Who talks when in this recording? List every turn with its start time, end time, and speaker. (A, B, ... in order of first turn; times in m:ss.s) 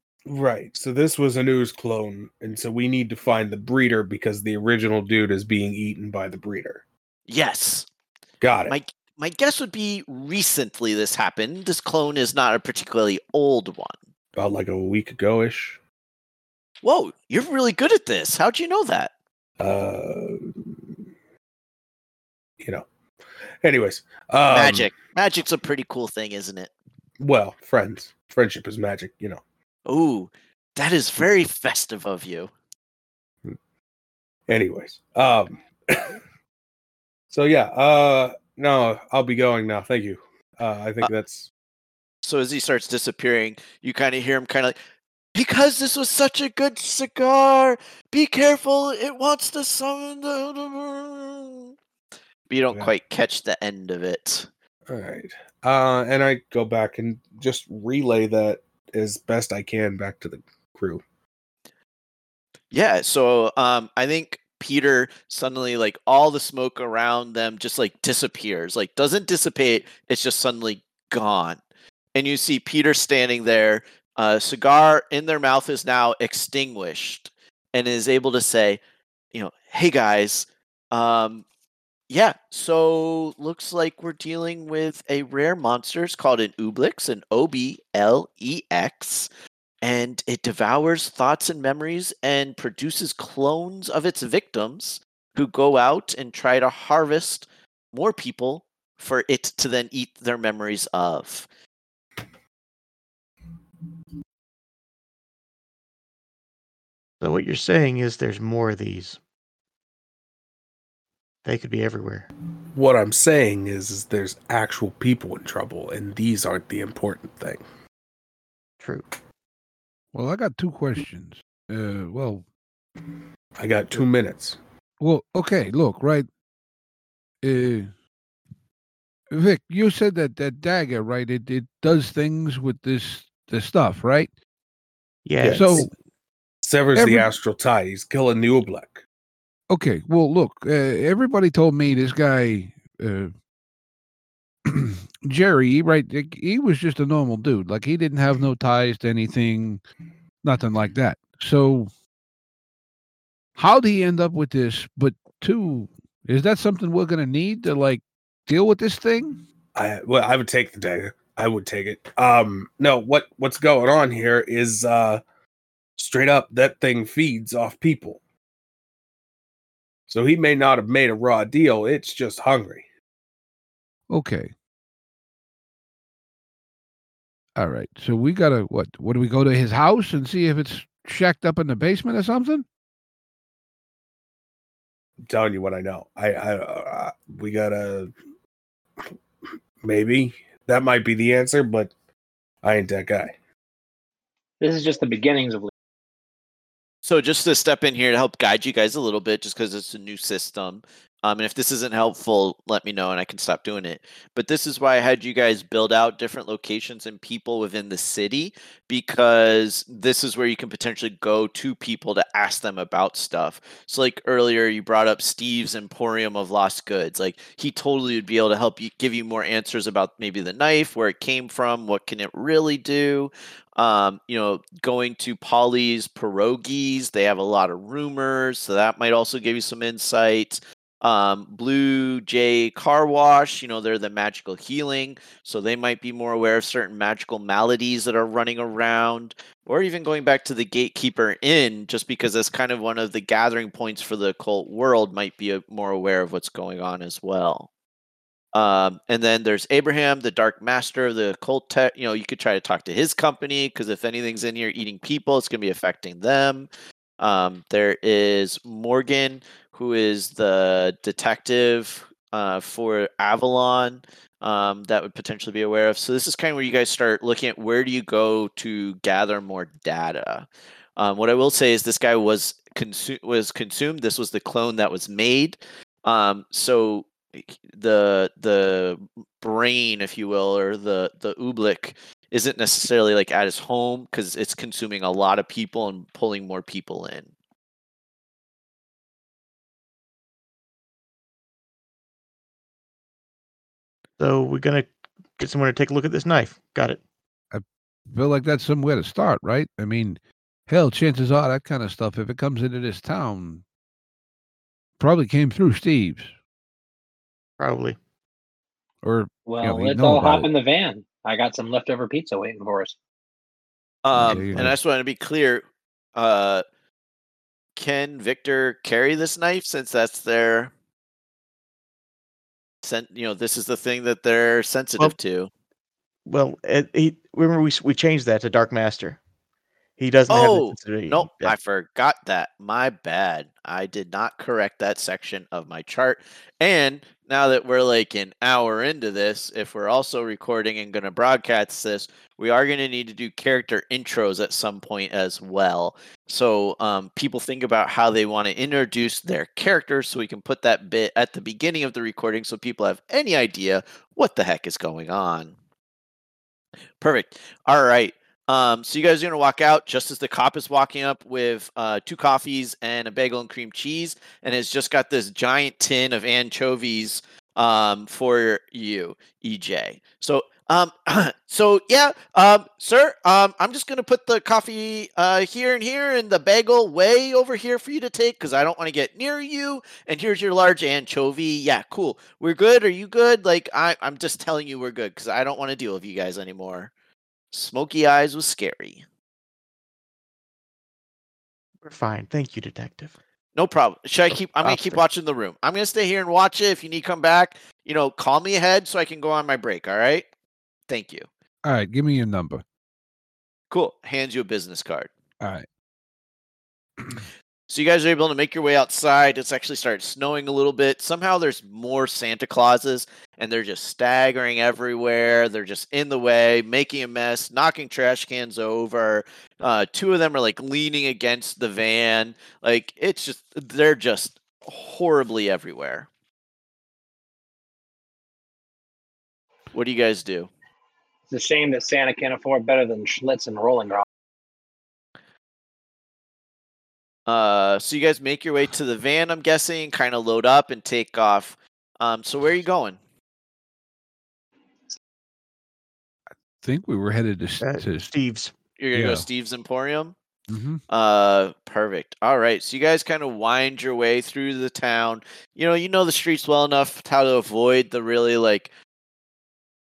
0:00.3-0:06.8 A
0:07.3-0:07.9 B
0:08.4-0:08.8 A
0:08.7-0:14.0 B
0:14.4-0:15.8 A
0:16.8-0:19.1 B
0:19.6-0:21.0 A
0:22.6-0:22.9 A
0:23.6-0:24.9 A
0:24.5-0:26.7 B
0:27.2-0:29.4 A
0:29.9-0:32.5 B
0:34.5-0:36.2 A
0:37.3-0:41.5 A
0:42.2-0:44.8 B
0:45.3-0:51.7 B
0:52.5-0:54.5 B
0:54.9-1:01.0 A
1:02.7-1:11.6 B
1:12.1-1:18.8 B
1:19.3-1:21.4 B
1:22.1-1:29.3 B
1:29.8-1:41.5 B
1:47.2-1:49.2 C
1:51.4-1:52.3 C
1:52.7-1:57.6 A
1:58.8-1:59.0 C
2:00.1-2:02.4 D
2:03.6-2:04.6 A
2:05.0-2:06.3 D
2:07.4-2:07.9 D
2:09.3-2:14.3 D
2:15.2-2:15.9 C
2:15.4-2:15.9 D
2:16.6-2:19.0 A
2:16.9-2:17.3 D
2:19.7-2:23.3 D
2:24.6-2:29.8 D
2:30.4-2:31.9 D
2:33.6-2:39.4 D
2:39.7-2:45.2 A
2:46.0-2:48.2 A
2:50.1-2:52.8 A
2:54.1-2:54.5 D
2:57.6-3:02.6 D
3:05.2-3:08.1 A
3:09.8-3:11.9 A
3:12.6-3:13.3 A
3:14.6-3:15.7 E
3:17.0-4:07.7 B
4:08.5-4:16.7 B
4:17.2-4:47.3 B
4:54.2-4:54.9 C
4:55.4-4:57.0 C
4:57.5-5:03.6 D
5:05.0-5:06.3 D
5:07.6-5:08.0 C
5:09.0-5:10.5 D
5:09.4-5:13.0 E
5:14.0-5:15.6 B
5:14.1-5:14.8 D
5:16.1-5:16.6 B
5:17.8-5:20.7 B
5:22.8-5:25.5 B
5:26.2-5:29.2 C
5:30.0-5:31.5 C
5:30.3-5:55.5 B
5:57.0-6:26.9 B
6:27.5-6:29.0 B
6:31.8-6:33.1 C
6:33.6-6:40.2 B
6:34.3-6:35.0 C
6:40.9-6:41.3 B
6:41.6-6:42.6 D
6:43.7-6:45.1 B
6:45.4-6:45.7 D
6:47.7-7:06.1 B
7:09.7-7:10.5 B
7:11.3-7:14.0 E
7:17.3-7:23.0 B
7:26.6-7:28.1 D
7:27.6-7:28.5 C
7:28.8-7:30.1 B
7:28.9-7:29.2 D
7:30.5-7:30.8 D
7:30.9-7:38.7 B